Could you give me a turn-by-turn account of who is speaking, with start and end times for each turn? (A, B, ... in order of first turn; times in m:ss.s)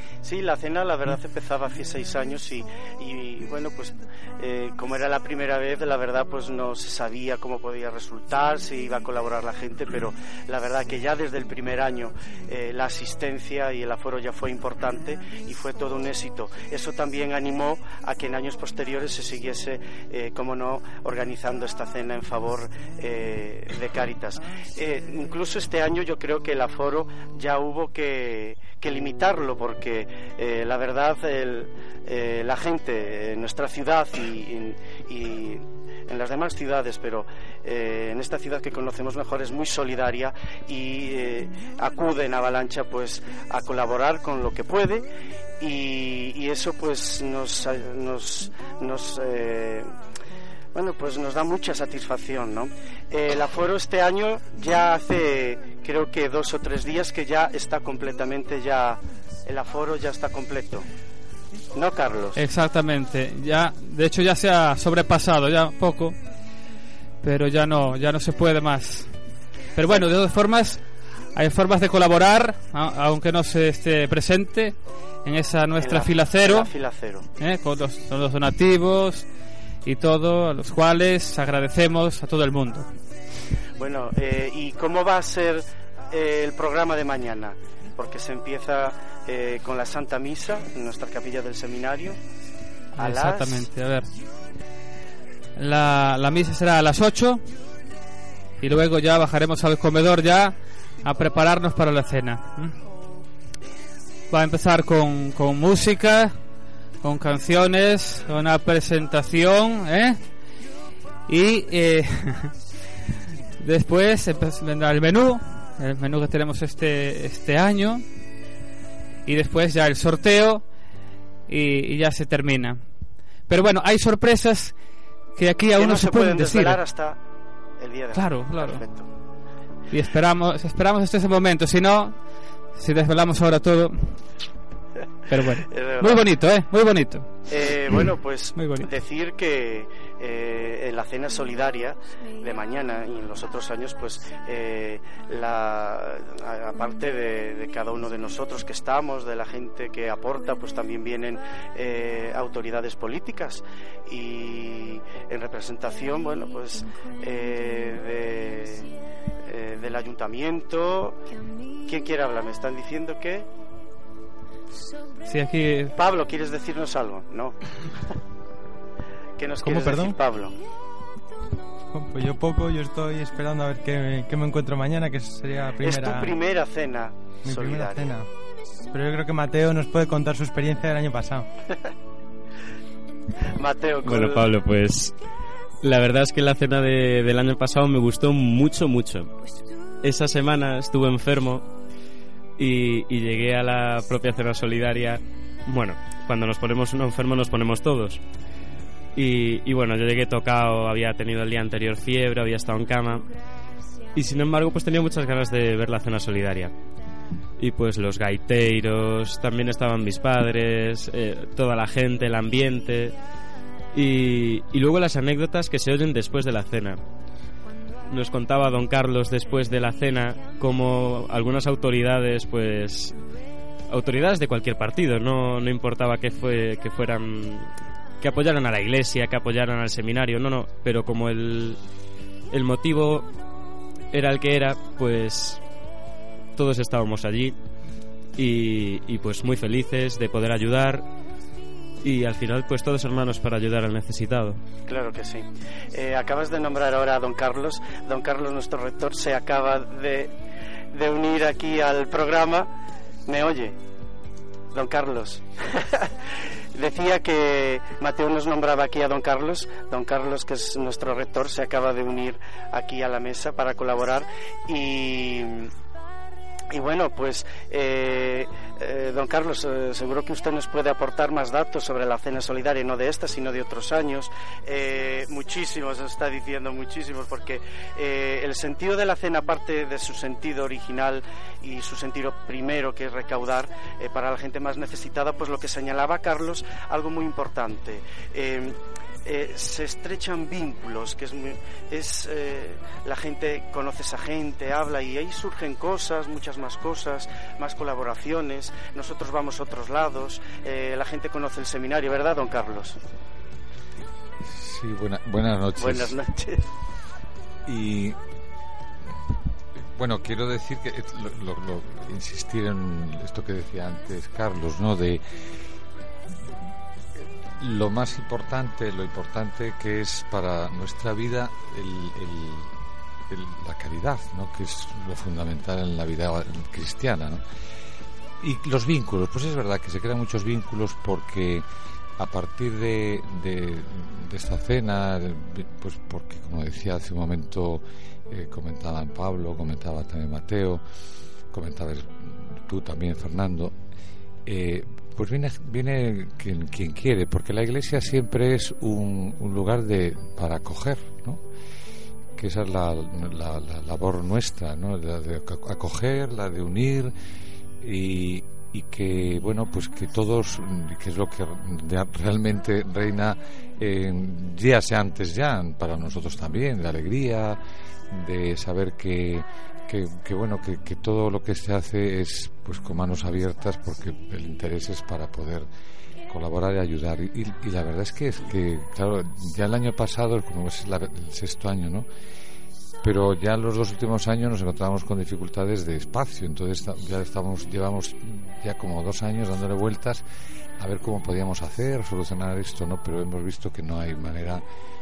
0:00.2-0:45.1 A
0:45.6-0:49.9 A
0:50.8-1:00.9 A
1:01.7-1:02.4 A
1:02.4-1:06.2 B
1:07.2-1:16.7 B
1:15.8-1:17.3 A
1:17.4-1:19.3 B
1:19.8-1:22.9 B
1:23.8-1:32.2 A
1:33.0-1:34.1 B
1:33.0-1:33.7 A
1:35.6-1:37.5 B
1:38.6-1:42.8 B
1:44.3-1:46.4 B
1:47.0-1:50.4 B
1:51.3-1:52.6 B
1:53.6-1:58.0 B
1:59.3-2:00.6 B
2:01.5-2:02.9 B
2:03.5-2:04.8 B
2:05.4-2:06.8 B
2:05.8-2:07.2 A
2:07.8-2:09.1 A
2:08.1-2:08.8 B
2:09.9-2:14.3 B
2:15.3-2:17.4 B
2:15.7-2:16.2 A
2:17.5-2:38.9 A
2:18.6-2:18.9 B
2:39.5-2:41.2 A
2:41.8-2:43.5 A
2:45.2-2:45.9 B
2:46.0-2:47.6 A
2:49.4-2:50.6 A
2:49.6-2:50.2 C
2:51.9-2:56.4 C
2:55.8-2:58.1 A
2:57.4-2:58.3 C
2:58.9-3:01.5 C
3:03.5-3:04.5 A
3:04.0-3:05.2 D
3:05.8-3:09.4 D
3:10.0-3:11.7 D
3:12.6-3:18.2 D
3:19.2-3:23.2 D
3:24.1-3:26.7 D
3:27.6-3:33.2 D
3:33.9-3:37.0 D
3:38.1-3:43.2 D
3:43.9-3:51.8 D
3:52.5-3:53.3 D
3:54.1-3:55.6 D
3:56.6-3:57.6 D
3:58.4-4:01.1 D
4:02.0-4:04.6 D
4:04.9-4:10.3 A
4:10.9-4:12.7 A
4:13.3-4:13.8 A
4:14.7-4:16.1 A
4:16.8-4:25.7 A
4:26.7-5:03.0 A
5:04.4-5:06.2 E
5:05.8-5:06.6 A
5:07.7-5:08.2 E
5:10.0-5:15.2 E
5:17.6-5:22.7 E
5:23.3-5:27.4 E
5:28.4-5:31.7 E
5:32.2-5:40.8 E
5:41.5-5:43.8 E
5:44.5-5:51.4 E
5:52.4-5:57.1 E
5:57.8-6:07.6 E
6:08.1-6:15.7 E
6:16.3-6:22.1 E
6:23.0-6:30.2 E
6:30.8-6:34.6 E